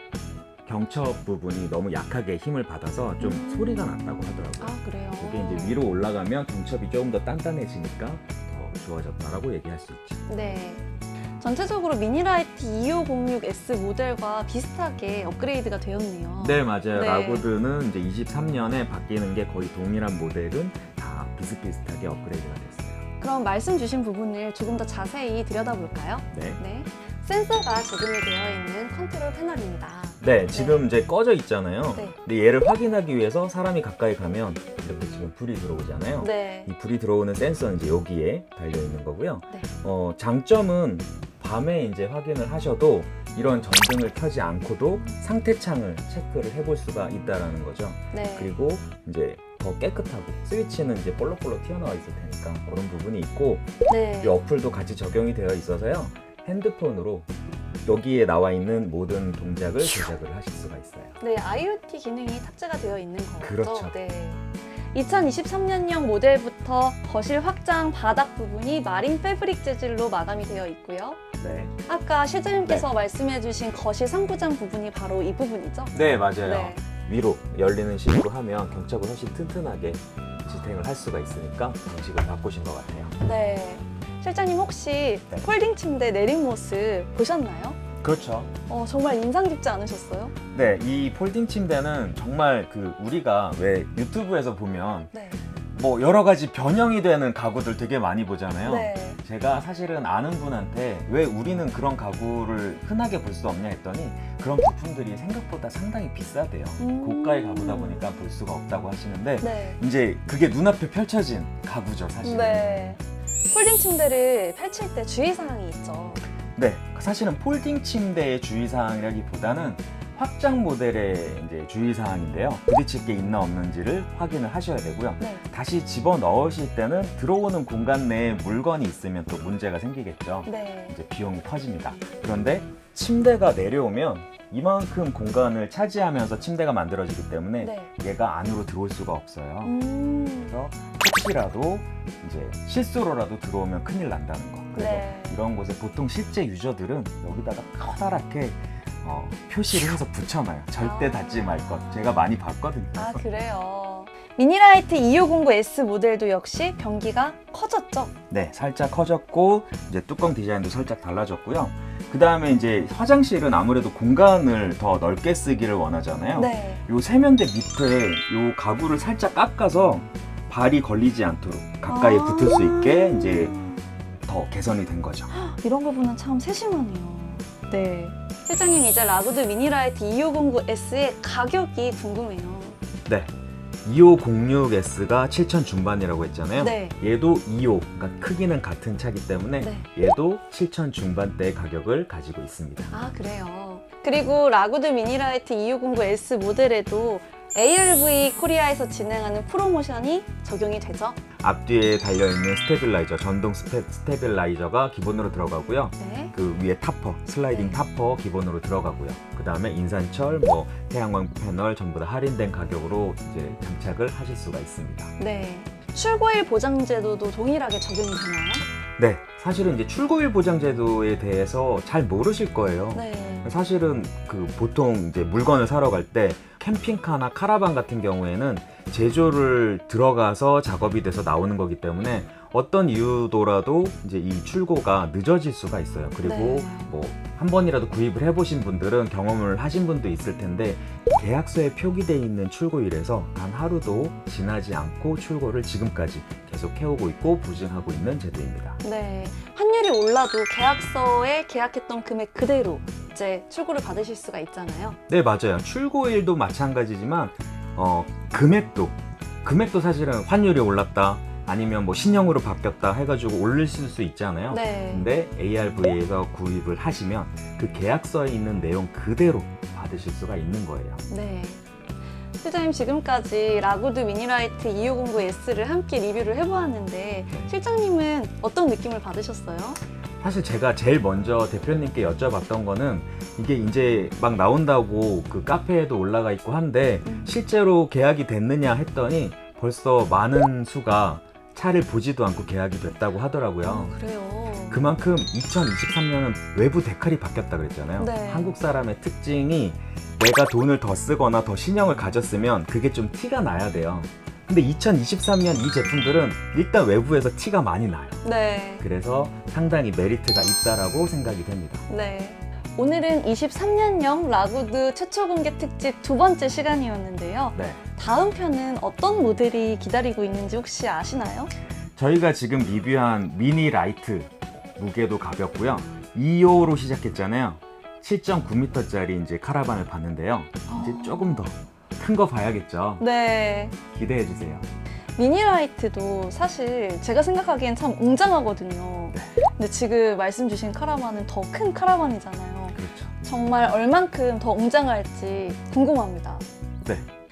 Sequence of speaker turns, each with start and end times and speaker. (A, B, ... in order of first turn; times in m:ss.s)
0:00.6-0:10.2 A
0:03.2-0:03.9 B
0:04.6-0:05.8 B
0:10.3-0:10.8 B
0:11.4-0:17.5 B
0:16.4-0:23.0 A
0:23.2-0:30.9 B
0:26.3-0:26.6 A
0:30.2-0:57.3 A
0:36.2-0:36.7 B
0:48.1-0:48.5 B
0:53.9-0:54.4 B
0:57.8-1:01.2 A
1:01.2-1:11.2 B
1:03.4-1:04.0 A
1:11.4-1:11.8 A
1:11.9-1:16.8 B
1:15.9-1:23.1 A
1:23.2-1:27.8 B
1:28.0-1:28.5 A
1:28.7-1:30.4 B
1:30.5-1:35.1 A
1:35.1-1:35.4 B
1:35.7-1:52.9 A
1:38.6-1:39.2 B
1:46.8-1:48.0 B
1:49.4-1:49.8 B
1:52.2-1:53.0 B
1:53.5-1:56.2 B
1:56.6-2:19.8 A
2:10.4-2:10.9 B
2:17.6-2:17.9 B
2:19.6-2:20.6 B
2:20.4-2:33.3 A
2:24.8-2:25.4 B
2:30.8-2:32.3 B
2:32.9-2:38.1 B
2:38.3-2:53.6 A
2:46.4-2:46.8 B
2:51.9-2:53.8 B
2:54.3-2:55.3 A
2:55.3-3:02.8 B
3:03.0-3:03.3 A
3:03.8-3:12.9 A
3:06.6-3:06.9 B
3:09.6-3:09.8 B
3:12.9-3:21.2 B
3:21.4-3:35.1 A
3:26.0-3:26.3 B
3:27.5-3:27.8 B
3:35.2-3:38.6 B
3:39.0-4:08.8 A
3:42.9-3:43.4 B
3:56.2-3:56.9 B
4:08.8-4:15.0 B
4:15.1-4:31.0 A
4:24.5-4:25.1 B
4:31.1-4:31.6 B
4:32.4-4:39.8 B
4:40.2-4:54.0 A
4:47.0-4:47.3 B
4:53.6-4:54.8 B
4:54.7-5:08.2 A
4:58.0-4:58.5 B
5:08.2-5:08.8 B
5:08.8-5:11.8 A
5:11.9-5:21.5 B
5:17.5-5:17.8 A
5:22.0-5:33.0 A
5:30.7-5:31.4 B
5:33.0-5:33.8 B
5:33.8-5:34.7 A
5:35.2-5:46.4 B
5:42.7-5:43.1 A